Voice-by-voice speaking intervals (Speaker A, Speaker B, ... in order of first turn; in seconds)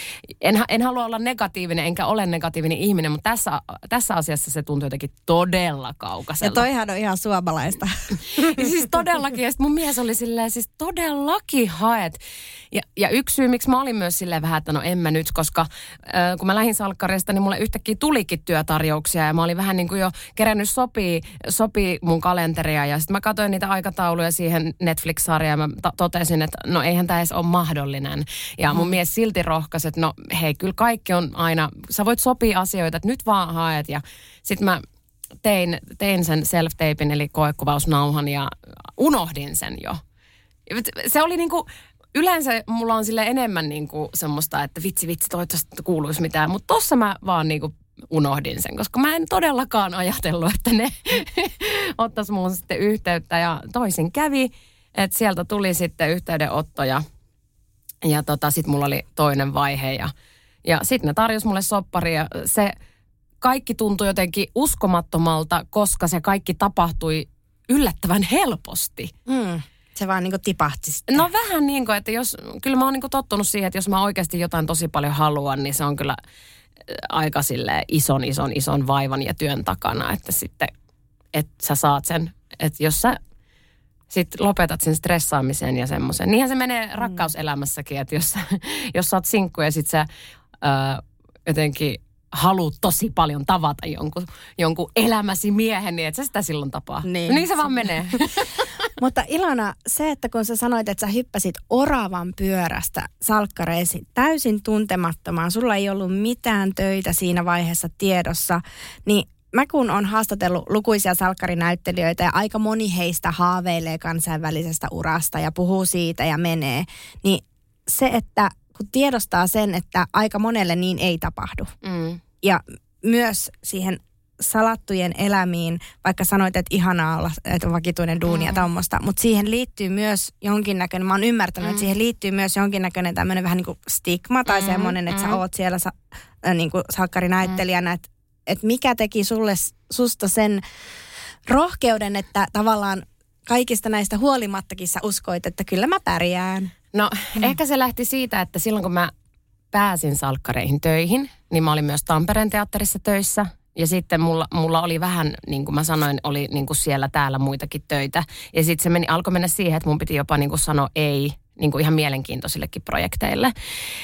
Speaker A: 0.4-6.6, 8.2-12.2, 12.7-34.8, 35.4-40.0, 40.7-57.0, 58.0-60.1, 60.6-62.7, 63.4-69.1, 71.1-76.2, 76.9-80.7, 81.3-83.2, 84.1-90.1, 90.6-98.7, 121.8-122.2, 128.3-128.6, 134.5-135.4, 146.9-149.1, 149.7-163.5
Speaker B: 6.4-8.7, 69.3-71.2, 97.0-97.9, 99.0-121.7, 122.4-140.6, 141.4-146.7